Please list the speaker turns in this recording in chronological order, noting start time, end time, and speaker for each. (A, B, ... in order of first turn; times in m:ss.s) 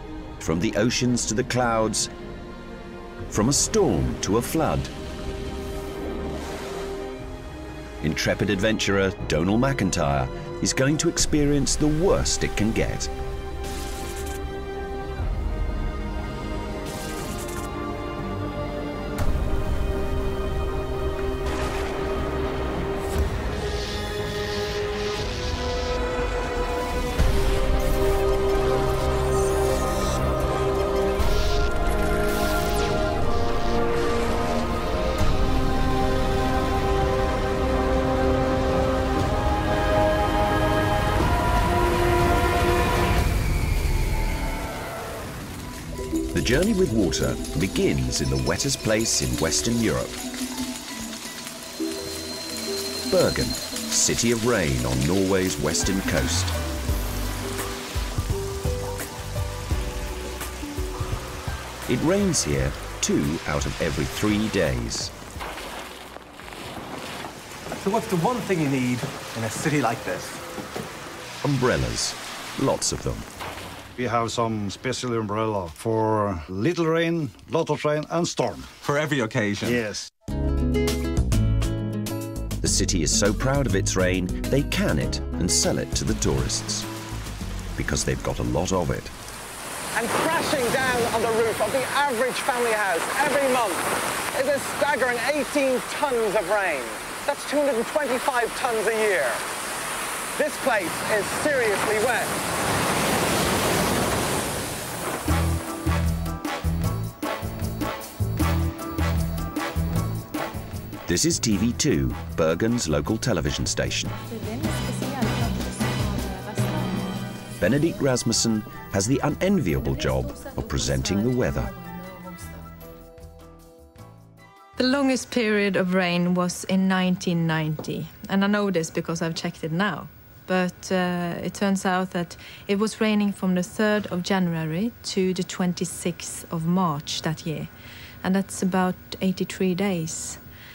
0:00.4-0:02.1 A
0:03.3-0:04.9 A
0:08.0-0:13.1 A
0:46.3-0:50.2 A
0:53.1-0:56.6 A
1:01.9-1:05.1 A
1:07.7-1:10.4 B
1:11.4-1:13.3 A
1:14.0-1:18.7 C
1:18.8-1:19.8 B
1:19.6-1:20.1 C
1:22.6-1:26.9 A
1:27.8-1:29.1 A
1:30.0-1:39.4 D
1:40.4-1:42.4 D
1:51.1-1:54.2 A
1:54.2-1:57.1 E
1:57.6-2:01.7 A
1:59.9-2:02.6 E
2:04.8-2:17.7 E
2:18.2-2:20.4 E